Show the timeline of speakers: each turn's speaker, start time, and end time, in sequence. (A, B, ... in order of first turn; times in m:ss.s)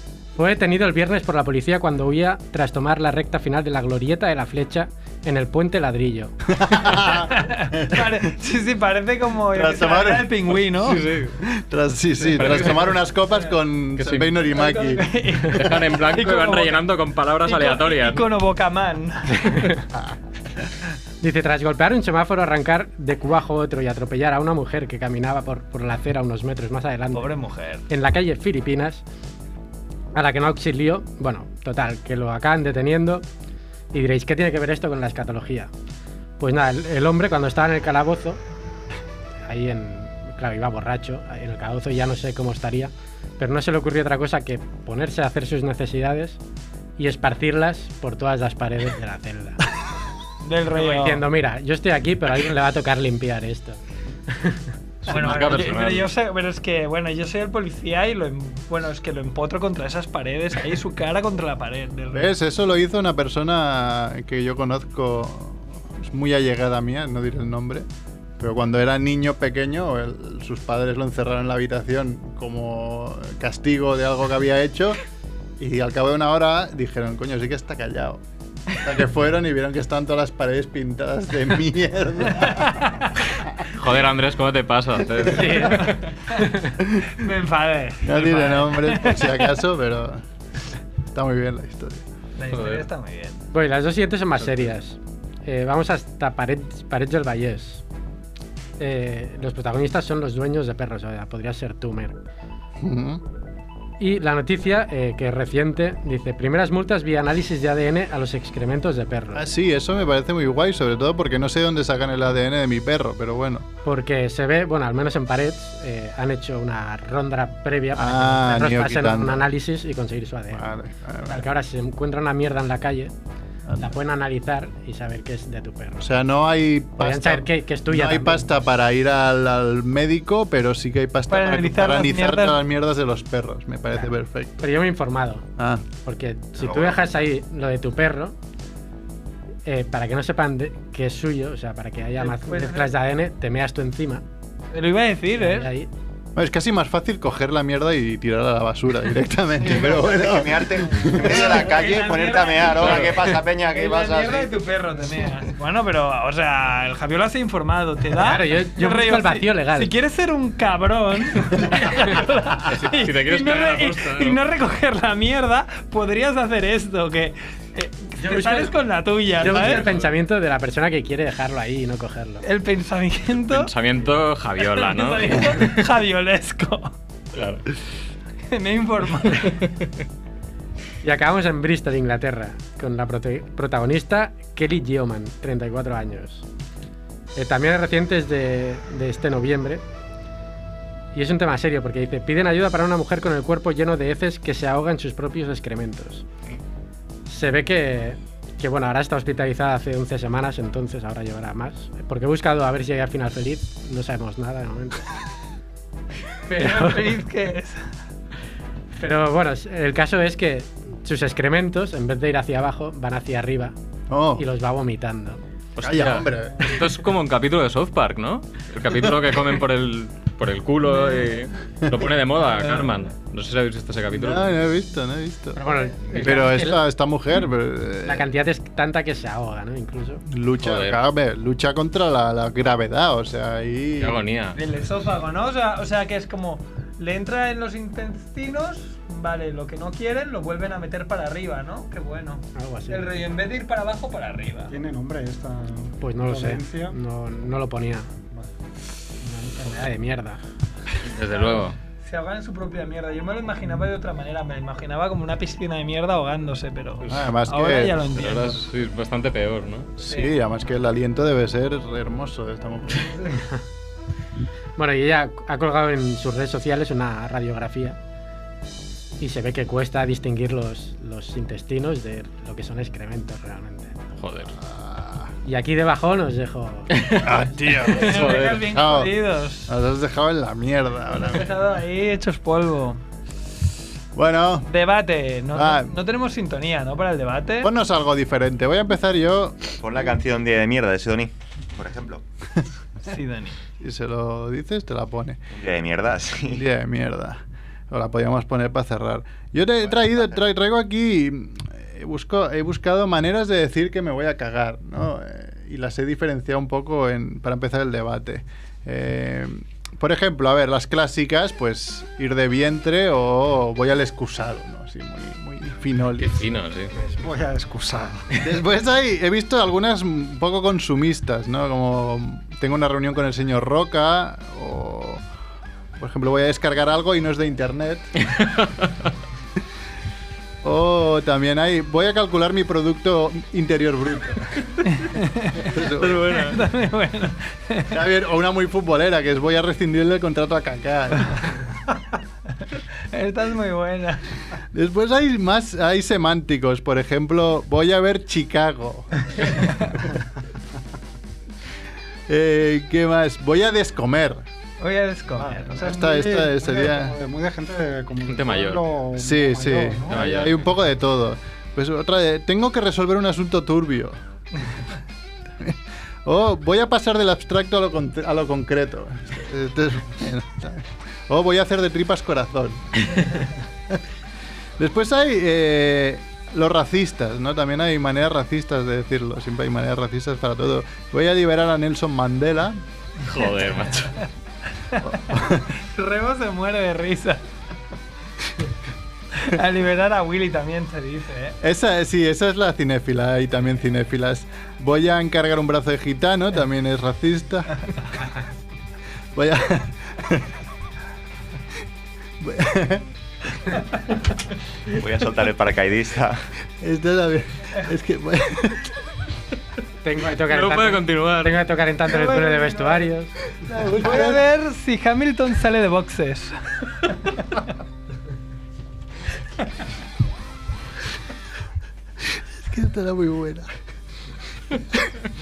0:00.4-0:06.3 A
0:06.5-0:08.1 B
0:06.8-0:11.0 C
0:09.5-0:15.1 B
0:10.8-0:11.4 D
0:12.3-0:13.0 D
0:14.0-0:14.3 D
0:14.5-0:16.8 C
0:15.4-0:18.3 D
0:17.4-0:19.7 C
0:21.2-0:27.3 A
0:27.1-0:27.8 C
0:27.9-0:29.0 A
0:30.1-0:33.2 A
0:33.9-0:35.7 A
0:36.4-0:38.4 A
0:39.5-0:46.4 A
0:47.0-0:49.6 A
0:50.4-0:51.2 C
0:50.7-0:53.8 A
0:54.3-0:54.6 A
0:55.0-0:56.1 D
0:55.1-1:02.3 C
1:02.1-1:07.8 B
1:08.4-1:15.0 B
1:15.6-1:18.2 B
1:18.7-1:22.8 B
1:22.6-1:23.0 C
1:23.7-1:25.9 D
1:25.2-1:26.7 A
1:25.7-1:26.4 C
1:27.1-1:29.5 C
1:28.0-1:30.2 B
1:31.1-1:32.0 B
1:32.4-1:33.4 C
1:32.5-1:32.8 D
1:33.5-1:37.8 A
1:38.8-1:42.2 A
1:42.8-1:43.2 B
1:44.0-1:49.4 A
1:49.3-1:53.6 B
1:53.8-2:00.7 A
1:57.9-1:59.4 B
2:00.5-2:01.4 B
2:01.2-2:03.1 A
2:03.6-2:04.0 B
2:03.8-2:06.1 A
2:06.0-2:14.7 B
2:07.0-2:08.4 A
2:11.3-2:12.6 C
2:14.6-2:15.4 A
2:15.6-2:15.8 B
2:16.0-2:18.3 A
2:16.6-2:17.1 E
2:19.6-2:24.2 A
2:22.2-2:22.9 C
2:24.7-2:25.7 C
2:25.4-2:25.9 A
2:26.3-2:31.5 B
2:29.6-2:34.6 E
2:31.0-2:49.9 C
2:38.1-2:39.9 A
2:42.7-2:44.4 D
2:48.2-2:48.6 A
2:49.4-2:52.4 A
2:49.7-2:50.1 D
2:52.4-2:53.7 C
2:53.4-2:55.6 D
2:54.7-2:56.9 C
2:57.3-2:57.6 D
2:58.5-2:59.6 C
3:01.0-3:06.4 A
3:07.4-3:09.8 A
3:11.1-3:16.2 A
3:17.3-3:25.1 A
3:26.5-3:27.2 A
3:26.5-3:27.9 C
3:29.0-3:33.7 A
3:34.1-3:34.5 B
3:34.4-3:35.4 A
3:35.8-3:44.6 D
3:35.8-3:36.8 B
3:44.1-3:48.3 B
3:45.5-3:46.8 A
3:48.0-3:50.2 A
3:50.3-3:54.2 B
3:50.6-3:51.0 D
3:54.0-3:54.6 D
3:54.6-4:04.7 C
4:02.5-4:03.1 A
4:04.7-4:07.0 F
4:06.0-4:08.1 A
4:09.2-4:10.4 A
4:11.0-4:11.8 D
4:12.0-4:18.6 C
4:17.1-4:18.0 B
4:18.1-4:19.9 D
4:20.0-4:23.4 B
4:24.8-4:28.0 A
4:29.2-4:34.0 A
4:34.2-4:34.5 D
4:34.7-4:35.3 B
4:35.4-4:37.3 A
4:36.9-4:37.2 D
4:37.2-4:41.5 B
4:37.8-4:39.7 C
4:38.0-4:38.8 D
4:41.2-4:43.0 C
4:44.2-4:44.7 B
4:44.7-4:47.7 C
4:45.5-4:45.9 B
4:47.6-4:49.7 B
4:49.8-4:52.2 E
4:53.0-4:53.6 C
4:53.8-4:55.5 B
4:55.5-4:56.6 E
4:56.4-5:16.5 B
4:59.8-5:00.4 E
5:16.2-5:16.9 D
5:17.2-5:18.3 F
5:18.4-5:25.2 B
5:26.0-5:28.1 B
5:30.6-5:34.7 B
5:34.8-5:37.9 C
5:35.6-5:36.4 B
5:36.0-5:36.5 D
5:37.9-5:41.4 B
5:43.1-5:44.2 C
5:44.7-5:49.7 B
5:52.3-5:54.4 B
5:54.8-5:55.8 C
5:55.4-6:00.3 F
5:55.7-5:57.1 B
5:58.2-5:58.9 D
5:59.2-6:04.2 B
6:00.1-6:00.6 D
6:05.6-6:14.0 B
6:14.8-6:22.8 B
6:23.2-6:24.2 D
6:24.9-6:27.4 C
6:25.0-6:25.7 B
6:29.3-6:31.6 C
6:31.6-6:37.9 B
6:39.3-6:40.5 B
6:42.4-6:43.0 B
6:45.0-6:46.4 E
6:46.8-6:48.9 B
6:50.0-6:53.3 A
6:50.5-6:51.6 D
6:52.1-6:53.0 C
6:53.6-6:54.4 B
6:54.0-6:57.4 C
7:02.3-7:03.7 B